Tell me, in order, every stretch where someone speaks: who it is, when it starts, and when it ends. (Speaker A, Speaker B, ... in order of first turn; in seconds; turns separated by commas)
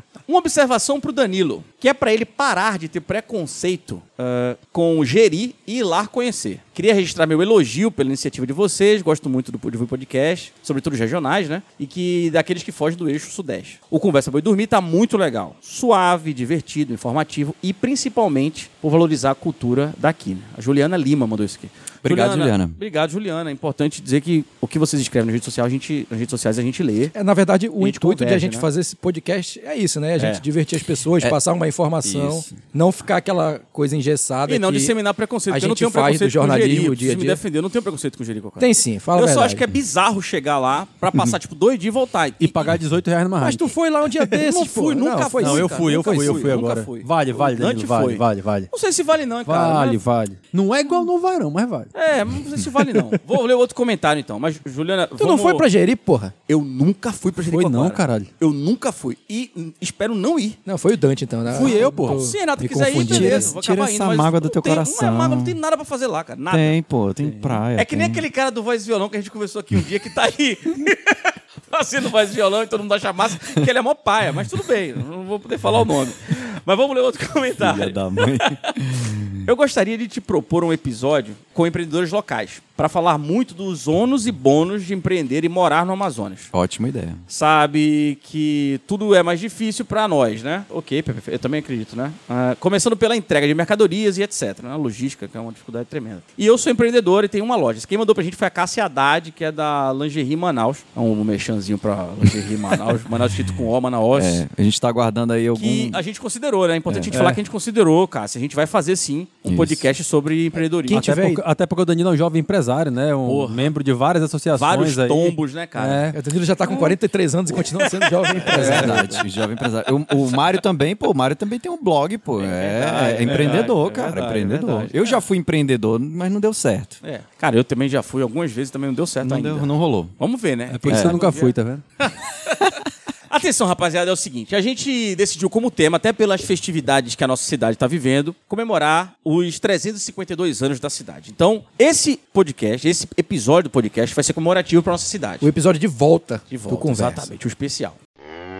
Speaker A: 0.3-27.1, Speaker B: 22.0-22.8, Speaker C: 27.1-34.9, Speaker A: 27.8-28.7, Speaker A: 30.2-30.4, Speaker B: 32.0-32.6, Speaker A: 34.5-42.8, Speaker C: 35.5-37.4, Speaker C: 38.6-39.6, Speaker D: 42.4-44.4, Speaker C: 43.4-46.6, Speaker A: 44.5-50.0, Speaker D: 45.4-48.7, Speaker D: 49.4-51.9, Speaker A: 51.9-55.6, Speaker D: 52.8-53.1, Speaker C: 55.2-56.3, Speaker A: 56.5-60.6, Speaker D: 57.5-58.3, Speaker C: 60.6-63.5, Speaker D: 61.5-62.2, Speaker A: 61.5-66.8, Speaker B: 62.9-65.6, Speaker B: 66.5-68.2, Speaker D: 67.2-67.5, Speaker A: 67.8-78.8, Speaker B: 77.6-79.5, Speaker A: 79.4-86.5, Speaker B: 86.5-87.2, Speaker A: 87.3-104.4, Speaker B: 104.1-106.0, Speaker A: 105.5-111.1, Speaker D: 107.1-107.4, Speaker B: 109.5-109.9, Speaker C: 110.9-111.4, Speaker D: 110.9-116.2, Speaker A: 113.2-113.7, Speaker A: 114.5-116.0, Speaker C: 116.1-119.2, Speaker A: 117.6-119.1, Speaker B: 118.5-127.0, Speaker A: 120.1-120.5, Speaker A: 122.4-125.2, Speaker A: 127.0-131.5, Speaker B: 129.2-130.1, Speaker D: 130.7-131.8, Speaker B: 130.8-131.2, Speaker A: 133.3-145.5, Speaker C: 145.4-147.2, Speaker A: 146.5-148.0